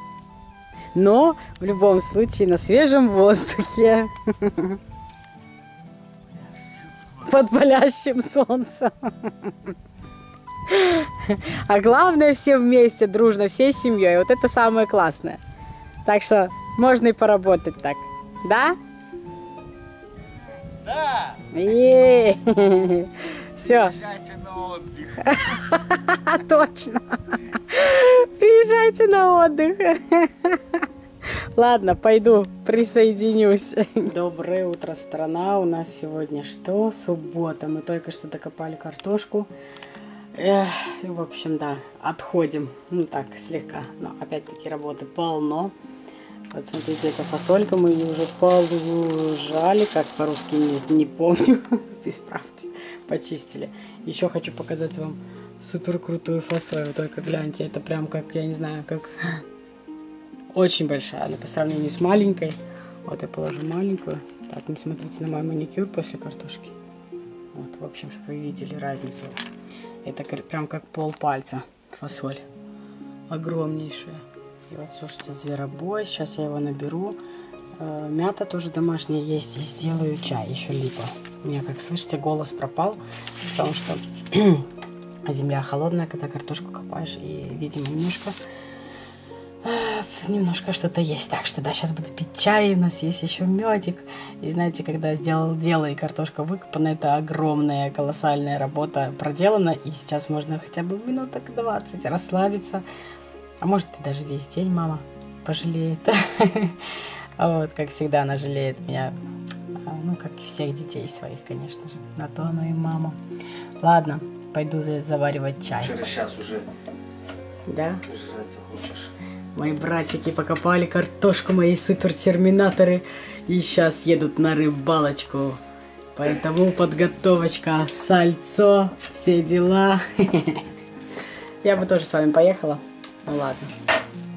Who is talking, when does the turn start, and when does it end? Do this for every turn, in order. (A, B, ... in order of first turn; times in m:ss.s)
0:01.0-0:04.8 A
0:07.1-0:09.8 A
0:10.7-0:15.4 A
0:16.0-0:18.8 A
0:21.0-0:21.3 B
0:21.4-0:24.2 A
0:24.2-0:25.0 B
0:25.1-0:39.5 A
0:40.3-0:45.8 A
0:46.5-0:59.4 A
1:00.5-1:06.8 A
1:07.5-1:09.4 A
1:10.0-1:12.4 A
1:13.3-1:17.2 A
1:17.8-1:24.7 A
1:25.2-1:28.4 A
1:29.6-1:42.8 A
1:43.6-1:49.2 A
1:49.8-1:53.2 A
1:53.8-1:56.4 A
1:56.1-1:56.7 B
1:57.7-1:58.3 A
1:58.2-1:59.1 B
1:59.5-2:05.6 A
2:06.2-2:10.7 A
2:11.6-2:13.7 A